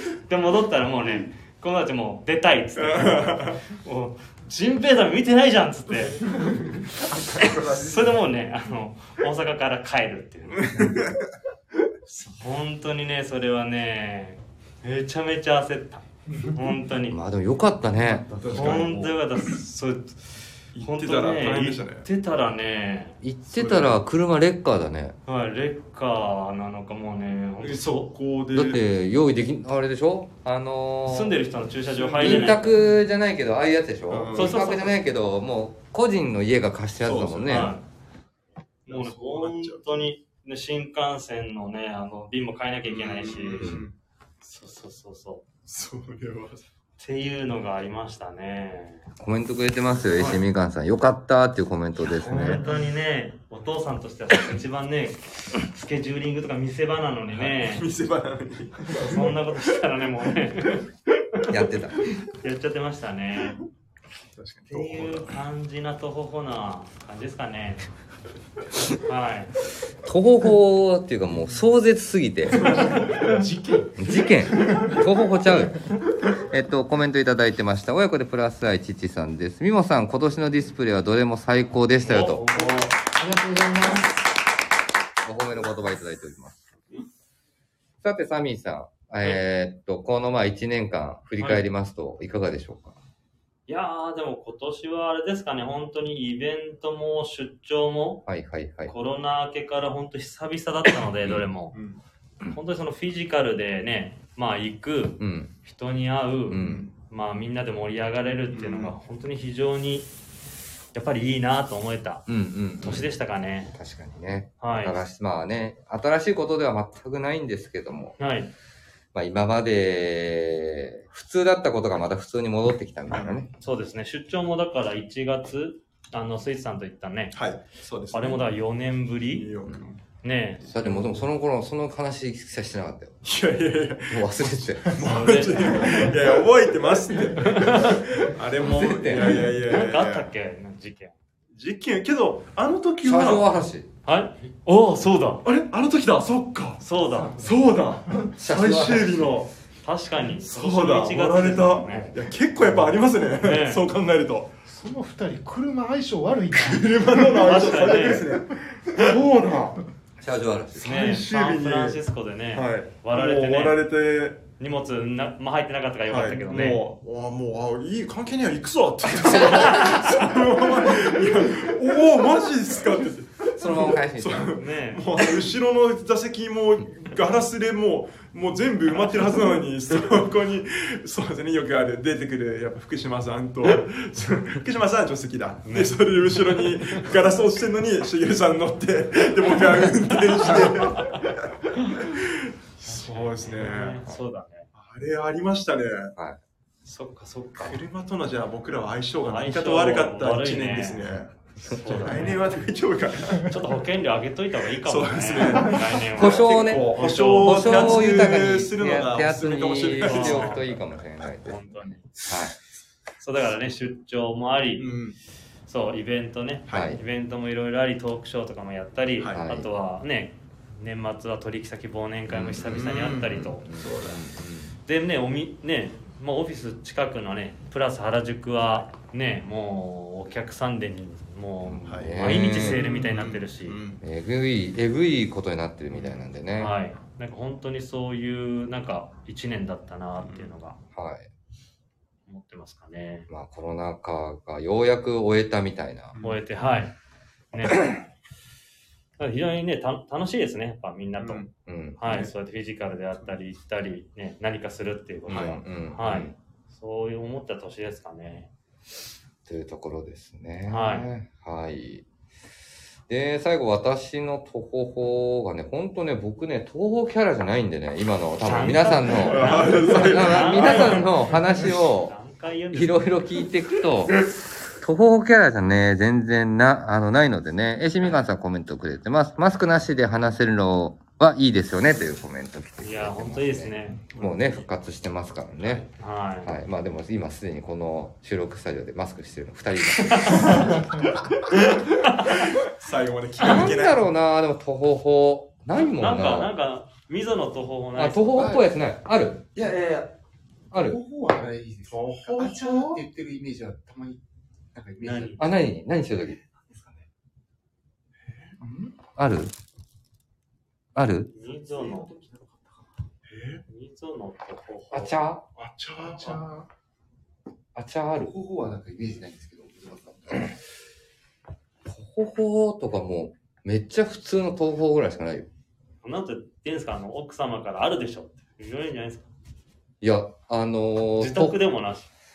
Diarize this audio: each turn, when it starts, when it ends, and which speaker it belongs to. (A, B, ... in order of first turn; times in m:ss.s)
0:00.3-0:06.3 A
0:02.8-0:03.6 B
0:06.3-0:08.2 B
0:07.3-0:10.9 A
0:10.6-0:11.2 B
0:12.1-0:17.2 A
0:17.1-0:18.9 C
0:18.3-0:19.2 B
0:18.5-0:20.2 A
0:20.7-0:22.0 B
0:20.8-0:23.2 A
0:23.2-0:25.2 C
0:23.5-0:24.0 B
0:25.3-0:28.1 A
0:27.6-0:28.8 B
0:28.5-0:31.4 C
0:31.1-0:32.8 A
0:31.9-0:32.7 B
0:32.2-0:37.7 C
0:34.1-0:34.6 B
0:34.4-0:35.0 A
0:37.0-0:37.7 B
0:37.5-0:37.8 A
0:38.9-0:43.8 A
0:38.9-0:40.0 B
0:42.8-0:43.9 B
0:44.4-0:45.4 A
0:45.7-0:46.6 B
0:47.0-0:49.1 A
0:49.2-0:52.6 C
0:50.2-0:50.4 A
0:52.0-0:57.8 A
0:57.3-0:59.4 B
0:59.0-1:00.8 A
1:01.5-1:02.0 C
1:02.3-1:03.6 A
1:04.4-1:05.4 B
1:04.7-1:07.9 A
1:09.0-1:09.5 A
1:10.0-1:12.8 C
1:12.6-1:13.3 B
1:14.0-1:15.8 C
1:16.3-1:22.4 C
1:22.0-1:23.1 A
1:25.2-1:26.7 C
1:28.0-1:33.0 C
1:31.4-1:31.6 A
1:33.7-1:38.2 A
1:38.3-1:38.9 C
1:38.9-1:41.8 A
1:41.7-1:42.0 B
1:42.5-1:50.1 A
1:45.2-1:45.5 C
1:46.5-1:46.9 C
1:46.6-1:46.9 B
1:48.5-1:48.9 B
1:50.9-1:52.3 A
1:52.3-1:53.1 C
1:52.8-1:53.8 A
1:53.8-1:58.2 C
1:54.6-1:55.0 A
1:58.2-1:58.5 A
1:59.1-2:03.5 C
2:03.1-2:03.5 B
2:03.6-2:07.4 A
2:07.3-2:08.5 B
2:08.1-2:09.5 A
2:09.3-2:10.0 B
2:10.2-2:11.0 A
2:10.7-2:11.1 B
2:10.7-2:13.3 C
2:13.2-2:20.3 B
2:14.1-2:15.0 C
2:15.0-2:16.1 A
2:17.4-2:18.0 A
2:18.6-2:19.5 C
2:19.6-2:21.2 A
2:21.5-2:23.5 B
2:23.0-2:23.9 C
2:24.0-2:25.4 A
2:25.4-2:26.8 B
2:26.8-2:27.5 A
2:27.4-2:29.5 B
2:28.4-2:29.4 C
2:29.8-2:32.2 A
2:30.4-2:34.5 B
2:33.4-2:33.8 A
2:34.7-2:37.2 D
2:36.5-2:39.8 B
2:37.4-2:38.3 A
2:40.2-2:40.9 C
2:40.8-2:42.0 B
2:40.8-2:43.8 A
2:42.5-2:44.4 B
2:44.6-2:46.8 A
2:46.1-3:14.0 B
2:49.4-2:50.2 A
2:53.5-2:54.5 C
2:54.5-2:55.0 A
3:05.7-3:06.0 A
3:12.9-3:14.7 A
3:14.7-3:16.1 B
3:16.8-3:17.8 A
3:17.6-3:23.6 B
3:19.2-3:21.1 A
3:21.7-3:22.6 A
3:23.4-3:28.3 A
3:24.8-3:30.6 B
3:26.1-3:32.6 C
3:30.0-3:30.7 A
3:31.4-3:32.1 A
3:33.2-3:34.9 A
3:34.8-3:35.2 B
3:35.7-3:43.6 A
3:36.7-3:37.0 B
3:36.7-3:37.0 C
3:39.3-3:39.7 C
3:42.3-3:44.7 C
3:42.7-3:44.2 B
3:44.9-3:53.8 A
3:51.6-3:52.8 C
3:51.8-3:54.0 B
3:54.0-3:56.7 C
3:55.9-3:56.2 B
3:56.6-4:00.8 A
4:00.2-4:00.5 B
4:00.9-4:01.3 C
4:02.3-4:03.3 A
4:03.3-4:06.2 C
4:06.2-4:06.4 B
4:06.2-4:06.9 A
4:07.5-4:07.9 A
4:07.7-4:08.0 C
4:09.2-4:11.4 A
4:11.2-4:11.5 B
4:11.7-4:12.0 C
4:12.0-4:18.5 A
4:12.1-4:12.3 B
4:15.3-4:16.3 C
4:15.3-4:15.6 B
4:19.5-4:22.0 C
4:20.7-4:21.1 A
4:23.1-4:32.1 C
4:28.4-4:33.2 A
4:29.1-4:31.1 B
4:32.7-4:45.8 C
4:42.8-4:44.0 A
4:44.1-4:44.6 B
4:45.9-4:46.6 A
4:46.4-4:51.0 C
4:50.0-4:50.6 A
4:52.0-4:52.5 A
4:52.2-4:54.0 B
4:53.4-4:56.5 C
4:55.8-4:58.5 A
4:58.0-4:59.4 C
4:58.4-4:58.6 E
4:59.5-5:00.1 E
5:00.7-5:01.0 C
5:00.7-5:04.2 E
5:01.9-5:03.0 B
5:04.8-5:05.6 E
5:05.0-5:05.5 A
5:05.4-5:06.4 C
5:06.4-5:07.1 E
5:08.6-5:08.9 D
5:09.2-5:09.5 C
5:11.0-5:11.3 C
5:11.3-5:12.1 A
5:11.4-5:12.8 E
5:13.3-5:13.6 B
5:13.7-5:15.1 A
5:14.9-5:15.5 C
5:15.6-5:16.4 B
5:16.0-5:16.6 E
5:17.8-5:18.3 C
5:18.2-5:20.5 E
5:21.9-5:25.5 C
5:26.0-5:29.3 A
5:30.0-5:31.6 C
5:31.2-5:32.1 A